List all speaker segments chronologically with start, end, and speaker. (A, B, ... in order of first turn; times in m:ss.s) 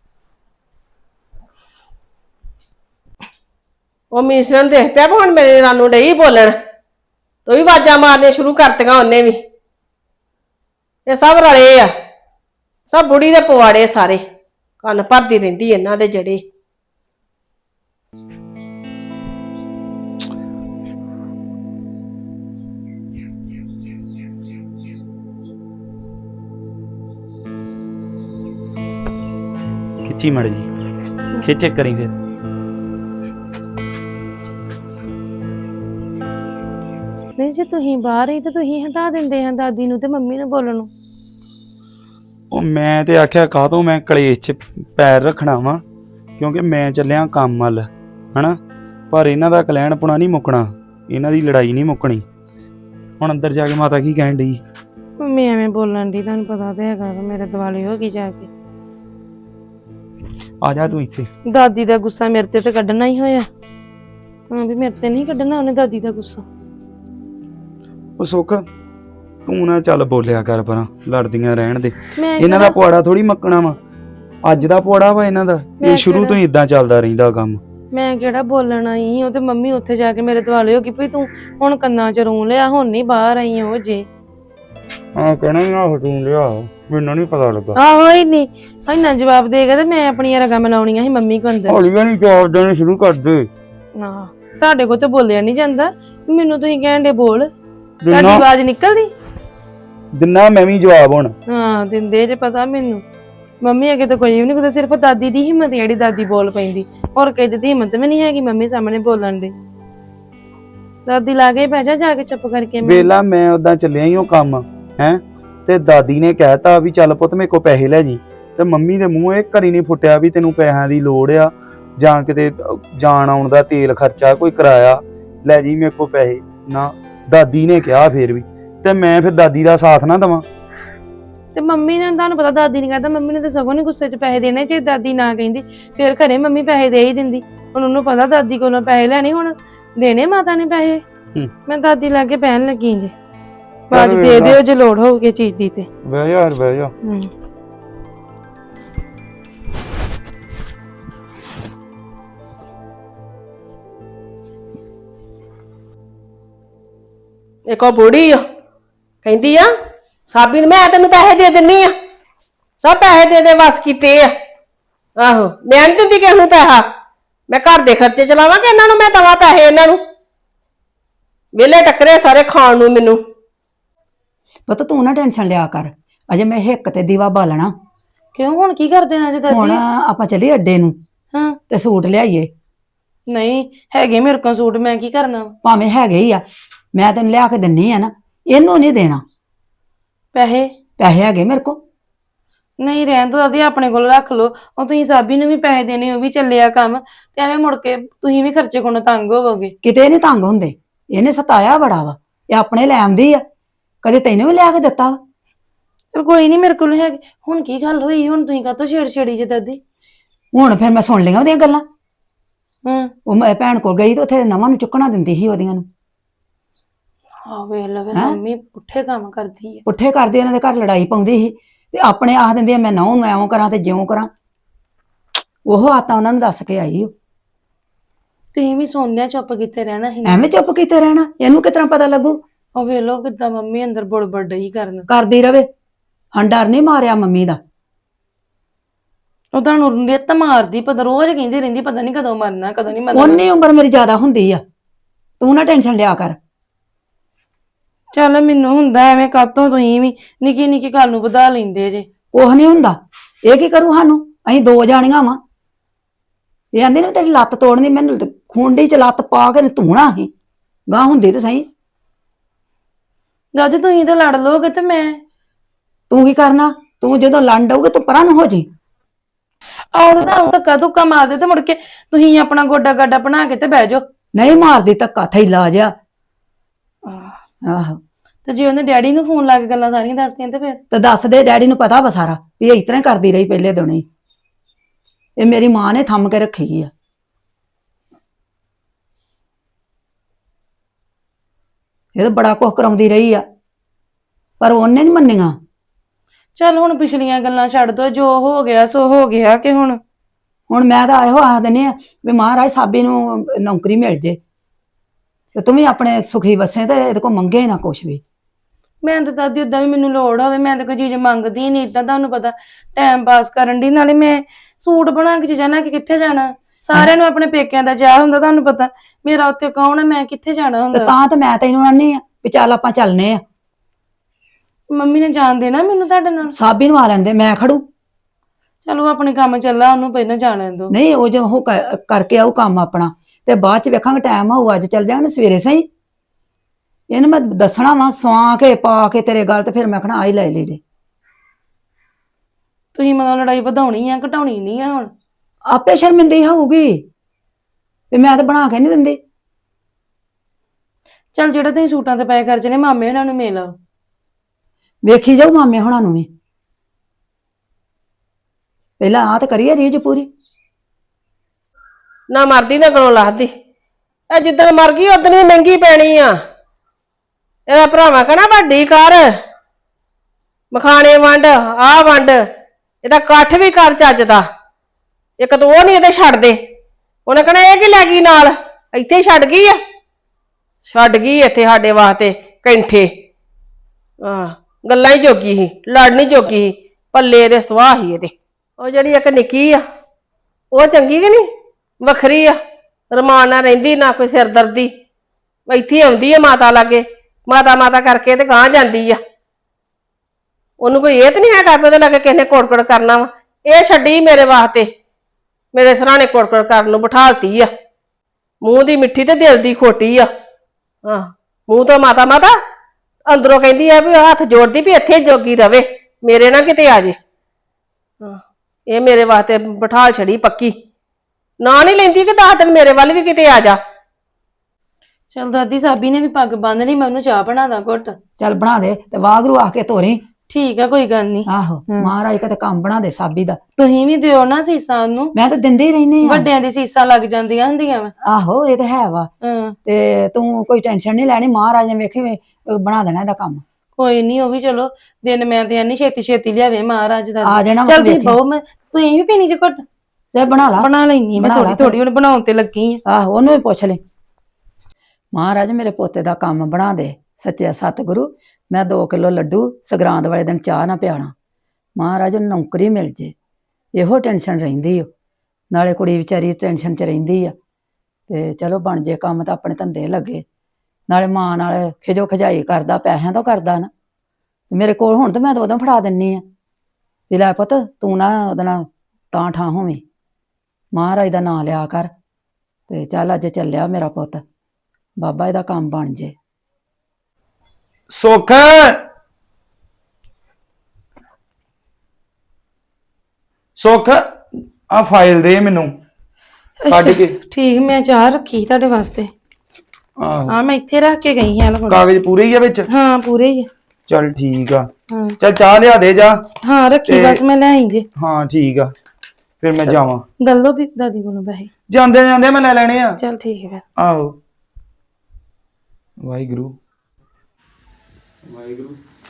0:04.1-0:06.6 A
0:07.4-0:09.4 A
0:11.1-0:11.9 A
0:12.9-0:14.2 A
0:14.8-0:16.4 A
0:30.0-0:30.7 B
0:31.4-0:32.1 B
0:37.4-0:40.9 C
0:42.5-0:45.8 B
0:46.4-0:48.6 B
0:49.1-0:52.2 B
0:53.2-0:54.6 B
0:55.2-0:58.5 C
1:00.6-1:01.3 B
1:01.5-1:03.5 C
1:04.5-1:06.4 C
1:08.2-1:08.6 B
1:09.4-1:13.8 B
1:12.1-1:12.8 C
1:14.4-1:17.6 B
1:15.8-1:16.4 C
1:17.9-1:24.0 C
1:25.1-1:27.8 B
1:27.8-1:31.8 C
1:31.7-1:33.5 B
1:34.0-1:37.5 C
1:38.0-1:38.4 B
1:38.1-1:39.1 C
1:40.1-1:41.3 B
1:41.5-1:43.0 C
1:43.6-1:49.5 C
1:51.0-1:53.1 C
1:52.8-2:10.4 B
2:11.5-2:21.0 C
2:21.7-2:23.1 C
2:23.9-2:25.9 C
2:23.9-2:24.6 B
2:26.0-2:26.9 B
2:27.0-2:27.3 C
2:37.7-2:38.4 A
2:39.2-2:39.7 A
2:40.3-2:41.9 A
2:42.8-2:44.3 A
2:45.2-2:46.8 A
2:47.5-2:50.0 A
2:51.6-2:53.2 A
2:54.7-2:57.7 D
2:58.3-2:59.8 C
2:59.5-3:01.0 D
3:01.7-3:02.5 D
3:03.3-3:05.5 C
3:05.6-3:06.4 D
3:06.9-3:09.2 D
3:10.3-3:10.7 C
3:11.0-3:11.8 D
3:12.8-3:19.7 C
3:19.8-3:23.4 D
3:24.0-3:25.2 D
3:26.1-3:29.8 C
3:30.5-3:31.8 D
3:32.8-3:33.1 C
3:33.3-3:35.8 D
3:37.4-3:39.8 C
3:39.8-3:44.3 D
3:45.7-3:47.1 D
3:48.5-3:50.4 C
3:50.2-3:52.4 D
3:52.8-3:55.1 C
3:55.1-3:55.7 D
3:56.3-3:57.6 D
3:59.5-4:03.4 C
4:03.1-4:04.6 D
4:05.4-4:06.4 D
4:08.1-4:12.0 C
4:12.3-4:15.4 D
4:16.7-4:20.3 D
4:20.9-4:21.6 D
4:23.5-4:25.2 C
4:26.1-4:28.7 D
4:29.9-4:34.0 C
4:34.3-4:35.9 D
4:37.0-4:37.3 C
4:37.6-4:38.0 D
4:38.4-4:40.8 C
4:40.9-4:44.0 D
4:45.4-4:46.9 D
4:52.1-4:53.4 D
4:54.6-4:55.6 D
4:56.6-5:00.0 C
5:00.7-5:04.4 D
5:05.6-5:08.2 D
5:09.0-5:21.1 C
5:20.9-5:23.4 D
5:24.9-5:26.5 C
5:26.5-5:27.8 D
5:28.8-5:30.9 C
5:30.9-5:35.8 D
5:37.1-5:40.8 D
5:42.9-5:45.1 C
5:45.7-5:47.0 D
5:48.1-5:49.2 D
5:51.3-5:53.8 C
5:55.0-5:56.3 D
5:59.0-6:00.3 D
6:02.3-6:03.5 A
6:04.3-6:06.3 A
6:07.7-6:09.2 A
6:10.7-6:12.4 A
6:13.0-6:14.4 A
6:15.4-6:16.6 A
6:17.3-6:19.8 A
6:20.9-6:23.1 A
6:24.2-6:29.8 A
6:30.7-6:31.5 A
6:32.0-6:32.6 A
6:33.1-6:34.9 A
6:35.7-6:39.2 A
6:40.8-6:44.9 A
6:45.7-6:47.7 A
6:48.6-6:50.3 A
6:51.0-6:52.5 A
6:53.3-6:57.2 A
6:58.9-7:00.7 A
7:01.6-7:03.8 A
7:05.3-7:08.1 C
7:08.4-7:10.2 D
7:10.5-7:12.1 C
7:11.5-7:13.6 D
7:13.8-7:15.3 C
7:15.3-7:16.5 D
7:16.2-7:18.1 C
7:18.2-7:19.3 D
7:19.4-7:19.7 C
7:19.8-7:23.6 D
7:24.0-7:29.8 C
7:27.4-7:28.4 D
7:30.3-7:32.0 D
7:30.8-7:33.0 C
7:33.0-7:34.0 D
7:35.3-7:41.3 D
7:42.0-7:43.3 D
7:44.0-7:45.1 D
7:45.7-7:47.5 D
7:48.3-7:50.4 D
7:51.1-7:53.9 D
7:54.7-7:56.4 D
7:57.3-8:00.0 D
8:00.9-8:02.1 D
8:02.9-8:04.4 D
8:05.2-8:06.3 D
8:08.1-8:09.0 B
8:13.8-8:15.9 B
8:16.8-8:19.3 C
8:16.9-8:17.3 B
8:20.2-8:20.5 B
8:20.5-8:22.0 C
8:21.9-8:22.8 B
8:22.9-8:23.7 C
8:24.1-8:26.5 B
8:25.1-8:25.4 C
8:26.6-8:28.0 C
8:27.1-8:27.4 B
8:28.2-8:28.9 B
8:29.6-8:30.2 B
8:30.4-8:31.7 C
8:31.9-8:33.2 B
8:33.2-8:33.8 C
8:34.0-8:34.4 B
8:36.2-8:36.8 B
8:38.4-8:39.0 B